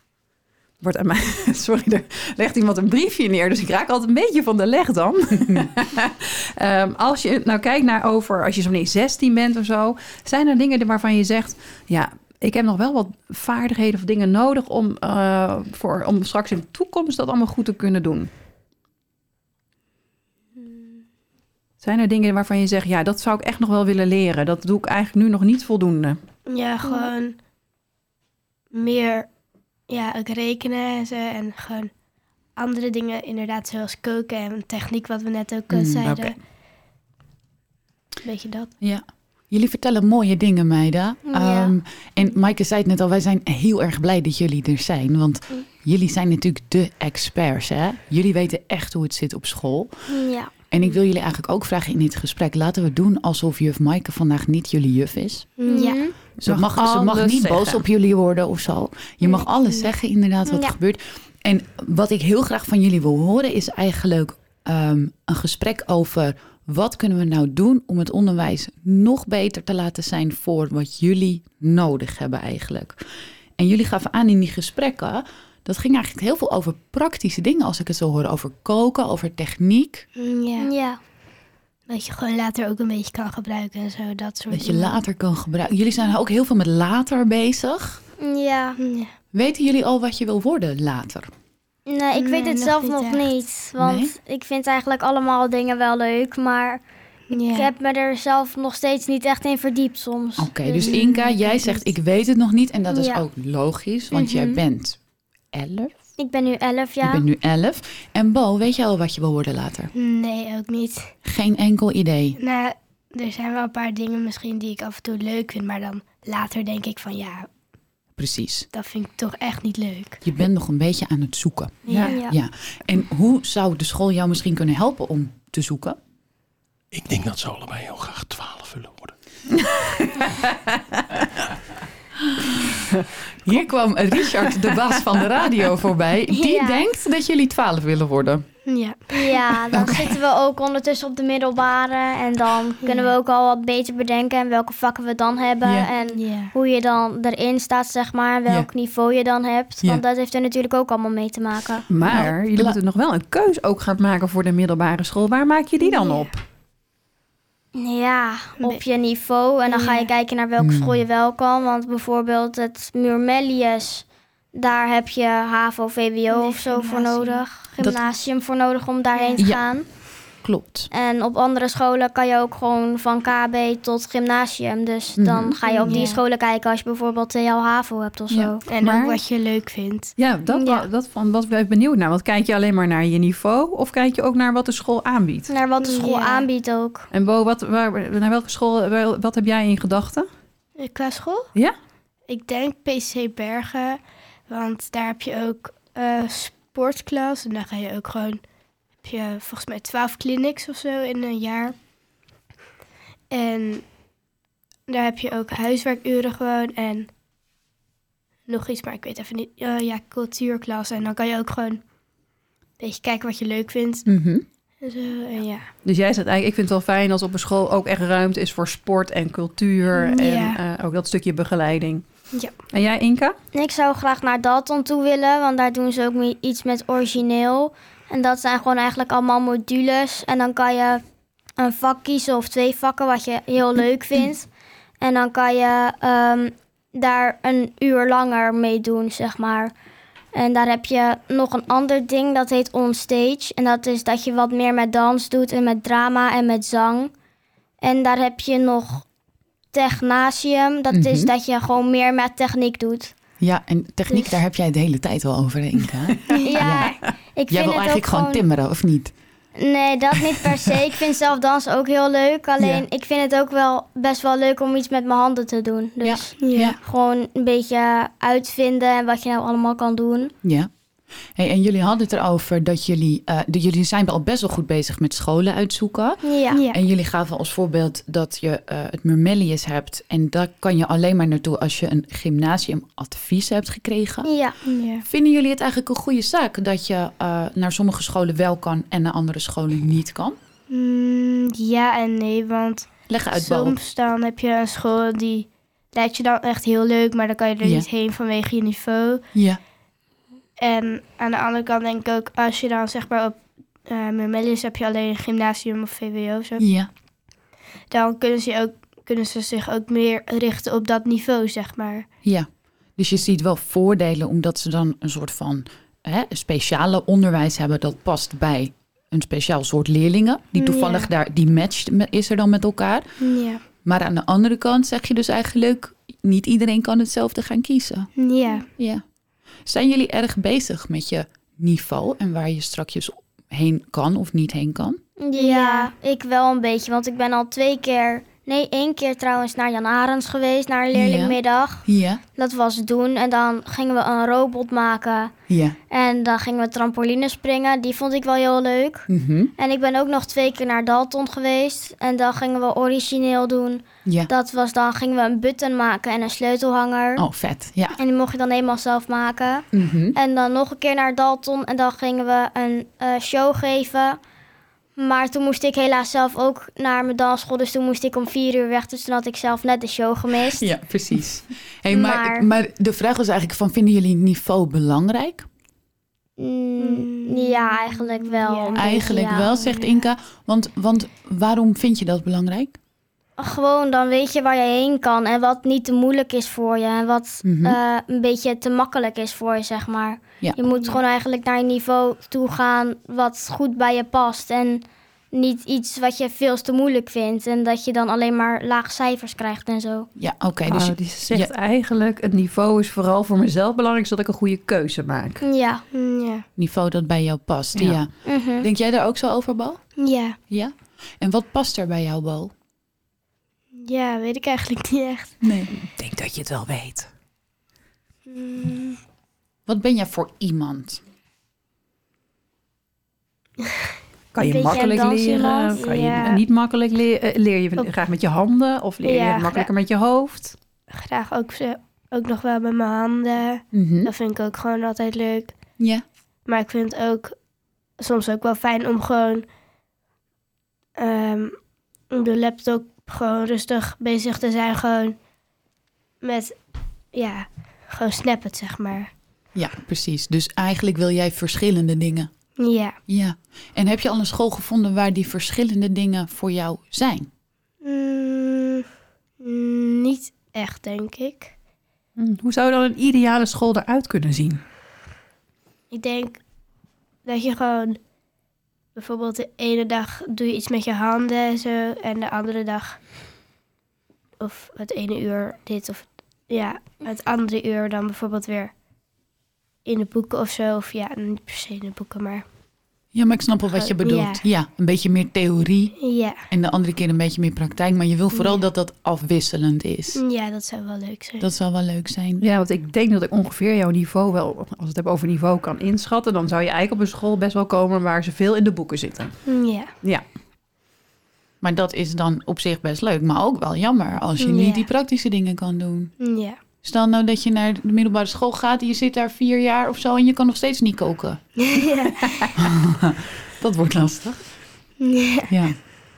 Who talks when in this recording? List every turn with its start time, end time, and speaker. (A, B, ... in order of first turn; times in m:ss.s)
0:00.8-0:18.3 A
0:21.8-0:26.2 A
0:26.5-0:27.4 B
0:26.8-0:27.1 C
0:28.7-0:29.3 B
0:29.9-0:31.9 B
0:32.6-0:36.4 B
0:35.7-0:36.3 D
0:38.2-0:38.7 B
0:38.8-0:49.9 D
0:41.3-0:41.7 C
0:50.1-0:50.5 C
0:50.7-0:55.5 D
0:55.6-0:56.0 B
0:55.6-0:56.1 C
0:56.4-1:13.0 D
0:56.4-0:57.8 A
0:59.3-0:59.9 B
1:00.5-1:00.7 C
1:13.6-1:20.1 D
1:20.2-1:20.7 B
1:20.6-1:21.0 C
1:21.9-1:25.0 B
1:24.5-1:28.0 D
1:28.2-1:28.8 C
1:28.8-1:29.1 B
1:29.3-1:31.3 D
1:31.9-1:36.8 C
1:32.2-1:33.2 B
1:33.8-1:34.1 D
1:37.3-1:37.7 B
1:37.3-1:41.0 C
1:40.4-1:45.0 D
1:40.7-1:41.9 B
1:42.9-1:43.2 C
1:44.1-1:44.6 C
1:45.5-1:45.9 D
1:46.2-1:47.2 C
1:47.0-1:49.9 D
1:49.9-1:51.1 B
1:51.2-1:52.4 D
1:52.4-1:57.5 B
1:58.2-1:58.6 D
1:58.7-2:00.2 B
2:00.2-2:06.0 D
2:01.8-2:02.2 B
2:02.1-2:02.3 C
2:06.9-2:09.1 E
2:09.5-2:11.2 A
2:12.3-2:12.8 D
2:13.4-2:18.4 D
2:14.2-2:15.4 A
2:16.3-2:16.8 C
2:18.6-2:19.3 B
2:19.1-2:31.8 C
2:19.7-2:20.2 D
2:22.8-2:23.1 B
2:25.6-2:25.9 D
2:26.1-2:26.5 B
2:31.9-2:36.4 A
2:32.0-2:32.8 D
2:35.8-2:36.3 B
2:37.7-2:49.8 C
2:39.6-2:40.1 B
2:40.6-2:41.0 D
2:46.3-2:47.4 B
2:49.1-2:49.4 B
2:49.4-2:49.7 D
2:50.3-2:50.9 D
2:50.9-2:58.6 C
2:55.2-2:56.0 D
2:55.6-2:56.2 B
2:58.3-2:59.2 A
2:58.7-3:00.1 B
3:00.2-3:05.5 A
3:00.5-3:00.8 C
3:05.5-3:07.0 C
3:05.8-3:06.4 B
3:07.1-3:10.3 A
3:10.8-3:11.5 B
3:12.3-3:18.4 B
3:19.0-3:21.8 B
3:23.3-3:23.9 B
3:24.9-3:27.1 B
3:28.5-3:31.8 B
3:32.8-3:34.1 B
3:34.0-3:34.4 D
3:34.8-3:35.7 B
3:35.8-3:43.3 A
3:39.9-3:40.6 B
3:43.5-3:51.0 C
3:51.6-3:59.7 C
4:00.3-4:07.1 C
4:07.8-4:09.0 C
4:09.7-4:13.1 C
4:10.9-4:11.3 D
4:13.4-4:19.1 D
4:16.4-4:18.4 C
4:19.5-4:30.3 C
4:22.6-4:22.8 D
4:26.0-4:26.8 D
4:26.4-4:26.8 B
4:30.4-4:30.7 D
4:31.3-4:44.3 D
4:36.2-4:36.6 C
4:36.5-4:36.8 B
4:44.2-4:44.6 C
4:44.6-4:45.0 B
4:45.0-4:50.4 D
4:50.7-4:59.2 B
4:53.1-4:53.8 D
4:57.6-4:57.9 D
4:59.3-4:59.6 D
5:00.6-5:06.6 B
5:06.6-5:06.9 D
5:07.9-5:12.0 B
5:12.2-5:23.2 D
5:20.6-5:21.1 B
5:23.2-5:23.6 B
5:23.8-5:28.1 D
5:28.2-5:28.6 B
5:28.8-5:29.0 D
5:29.6-5:35.0 D
5:35.2-5:45.3 C
5:35.3-5:35.9 B
5:40.9-5:42.2 D
5:45.5-5:45.8 D
5:45.9-5:57.2 C
5:49.1-5:49.5 D
5:54.0-5:54.3 D
5:57.2-5:58.0 D
5:58.0-6:04.2 C
5:59.7-6:00.2 D
6:05.0-6:10.7 C
6:10.6-6:15.5 D
6:11.9-6:12.5 C
6:16.4-6:19.5 C
6:16.8-6:20.0 B
6:18.8-6:22.8 D
6:23.4-6:40.1 C
6:27.4-6:27.8 D
6:40.2-6:41.5 D
6:40.7-6:45.4 A
6:45.4-6:45.8 C
6:45.9-6:46.4 B
6:46.6-6:50.0 D
6:48.2-6:48.7 C
6:50.0-6:50.4 B
6:50.5-6:52.5 D
6:53.8-6:55.4 B
6:55.4-6:55.7 D
6:55.8-6:57.1 A
6:58.3-6:59.0 B
6:59.6-7:01.0 D
7:04.3-7:10.6 A
7:04.4-7:05.8 C
7:05.8-7:06.4 B
7:09.0-7:09.7 B
7:10.9-7:15.5 B
7:13.7-7:14.1 D
7:15.8-7:16.0 D
7:16.4-7:17.4 B
7:18.0-7:19.5 B
7:21.0-7:25.2 B
7:26.2-7:26.5 B
7:27.1-7:29.1 B
7:29.5-7:32.3 D
7:32.6-7:33.0 B
7:33.1-7:37.3 D
7:37.8-7:38.8 B
7:39.4-7:41.5 B
7:42.2-7:44.6 A
7:45.9-7:46.4 B
7:47.2-7:48.0 B
7:48.9-7:53.0 B
7:54.4-7:58.7 B
7:59.8-8:02.4 B
8:03.1-8:06.0 D
8:03.8-8:04.4 B
8:06.0-8:06.4 B
8:06.5-8:10.2 D
8:08.3-8:08.6 B
8:10.1-8:11.5 B
8:11.4-8:12.4 D
8:12.4-8:20.2 A
8:19.4-8:19.9 B
8:21.6-8:26.2 D
8:24.4-8:24.8 B
8:26.2-8:26.6 B
8:26.8-8:31.4 D
8:31.6-8:32.4 B
8:32.6-8:34.5 D
8:35.0-8:35.5 B
8:35.5-8:35.8 D